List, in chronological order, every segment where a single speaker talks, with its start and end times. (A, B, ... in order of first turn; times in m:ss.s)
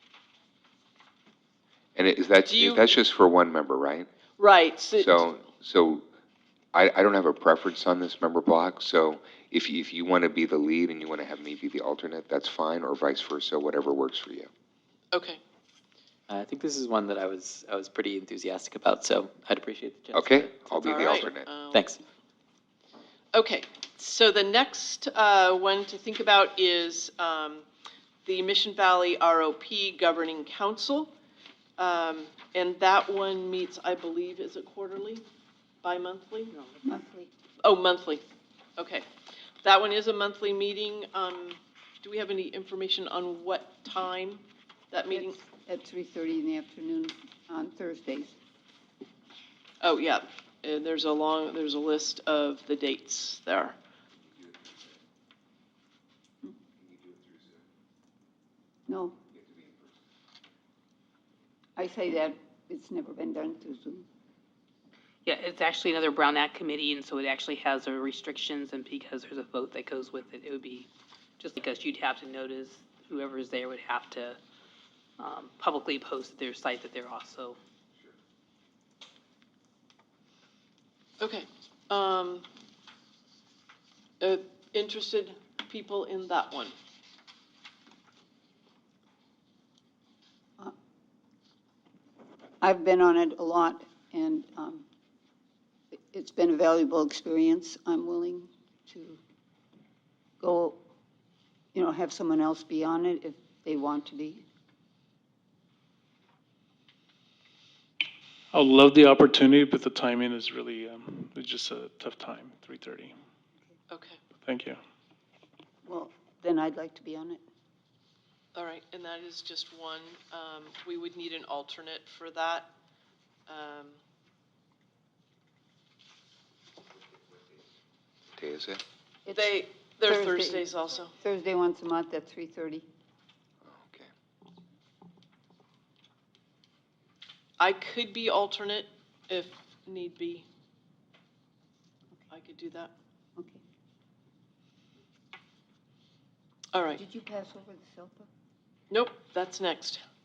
0:02.0-0:04.1 A
0:02.4-0:02.9 B
0:04.4-0:05.2 B
0:05.0-0:06.0 A
0:06.7-0:14.5 A
0:15.1-0:15.4 B
0:16.3-0:22.0 C
0:20.1-0:21.6 A
0:20.8-0:21.9 B
0:23.3-0:27.6 B
0:28.2-0:31.1 B
0:31.8-0:35.2 B
0:35.8-0:36.5 B
0:36.5-0:36.8 D
0:36.8-0:37.3 E
0:37.6-0:38.2 B
0:38.8-0:39.0 B
0:39.6-0:45.4 B
0:45.1-0:48.4 E
0:49.8-0:53.8 B
0:54.3-0:54.9 A
0:56.8-0:57.6 A
0:58.9-0:59.2 E
0:59.4-0:59.9 A
1:01.8-1:04.0 E
1:05.2-1:14.4 D
1:15.2-1:17.6 D
1:21.2-1:22.5 B
1:24.2-1:26.7 B
1:32.6-1:34.8 E
1:35.9-1:39.2 E
1:40.4-1:40.8 E
1:41.7-1:44.4 E
1:48.5-1:53.1 F
1:53.9-1:54.2 B
1:54.4-1:54.8 F
1:55.8-1:57.4 E
1:58.5-2:02.7 B
2:03.5-2:04.0 B
2:08.4-2:08.8 A
2:09.2-2:12.8 E
2:09.3-2:11.1 B
2:13.6-2:14.1 A
2:17.6-2:20.5 B
2:22.3-2:22.9 B
2:26.7-2:27.0 B
2:26.9-2:28.3 E
2:28.9-2:30.0 B